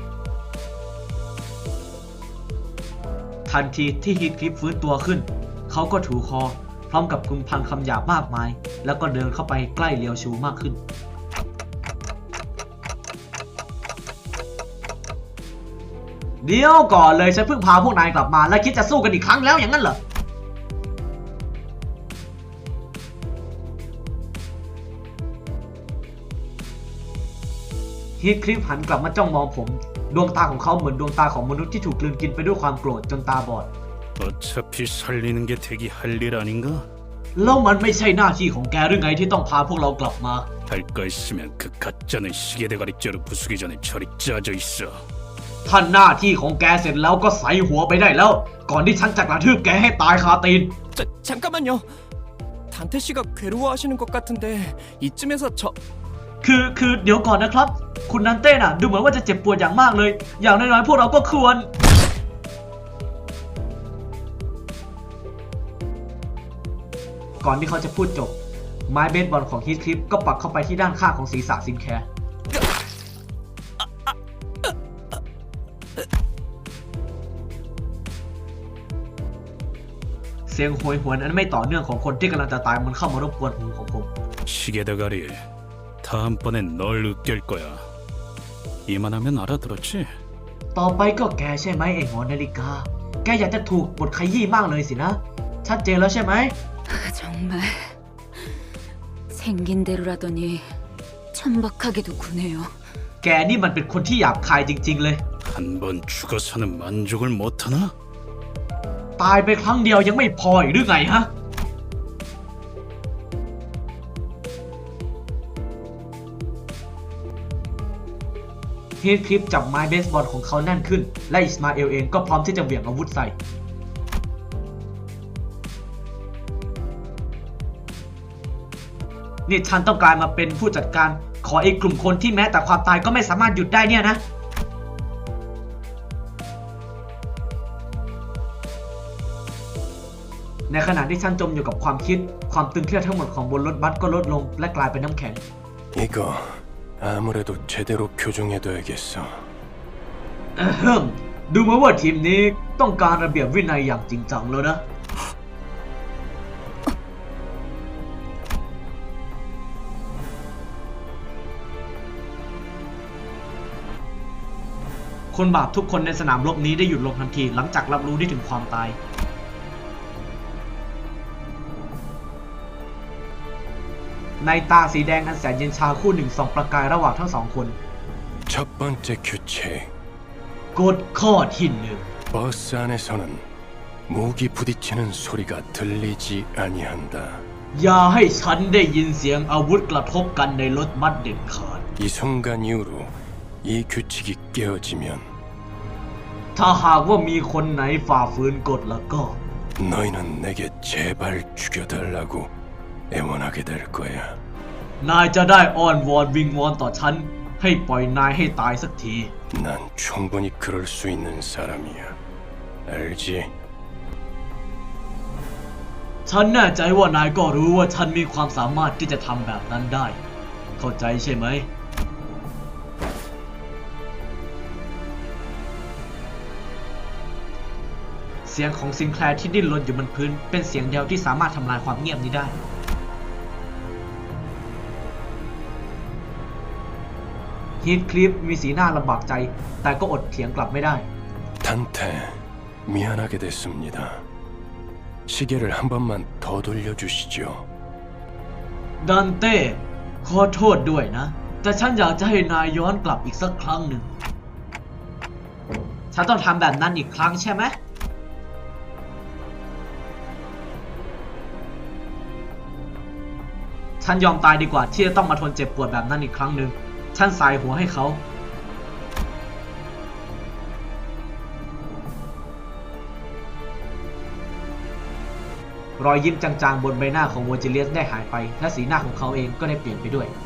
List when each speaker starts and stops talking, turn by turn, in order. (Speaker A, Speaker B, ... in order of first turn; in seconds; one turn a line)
Speaker A: 3.5-10.8
Speaker A: 16.4-20.0
Speaker A: 28.2-33.7
Speaker B: 34.2-36.9
Speaker A: 37.4-40.5
Speaker B: 40.7-45.0
Speaker A: 45.6-50.8
Speaker C: 50.9-51.9
Speaker C: 52.7-55.8
Speaker A: 56.4-61.7
Speaker A: 67.4-68.4
Speaker A: 68.9-72.0
Speaker A: 80.5-84.1
Speaker B: 84.5-85.4
Speaker B: 86.0-87.8
Speaker B: 88.8-90.1
Speaker A: 90.7-96.5
Speaker D: 96.9-98.5
Speaker D: 99.3-100.8
Speaker D: 101.3-102.8
Speaker A: 103.2-105.2
Speaker B: 105.4-107.9
Speaker A: 109.2-111.3
Speaker A: 119.0-123.3
Speaker A: 129.5-134.2
Speaker A: 140.7-145.4
Speaker E: 145.9-149.5
Speaker A: 150.6-154.8
Speaker A: 165.3-169.0
Speaker A: 174.4-177.8
Speaker E: 178.5-179.9
Speaker A: 180.7-182.1
Speaker E: 182.3-183.4
Speaker E: 184.1-187.4
Speaker A: 187.7-191.8
Speaker E: 192.0-195.3
Speaker A: 196.6-199.4
Speaker E: 199.8-202.5
Speaker E: 203.1-204.3
Speaker A: 205.0-209.3
Speaker E: 209.5-212.2
Speaker E: 212.8-213.5
Speaker A: 216.3-220.2
Speaker A: 220.8-221.7
Speaker A: 228.4-232.6
Speaker A: 237.8-241.1
Speaker E: 241.6-244.2
Speaker E: 245.3-247.7
Speaker A: 249.0-254.1
Speaker A: 256.1-257.8
Speaker A: 264.0-268.2
Speaker A: 276.0-280.3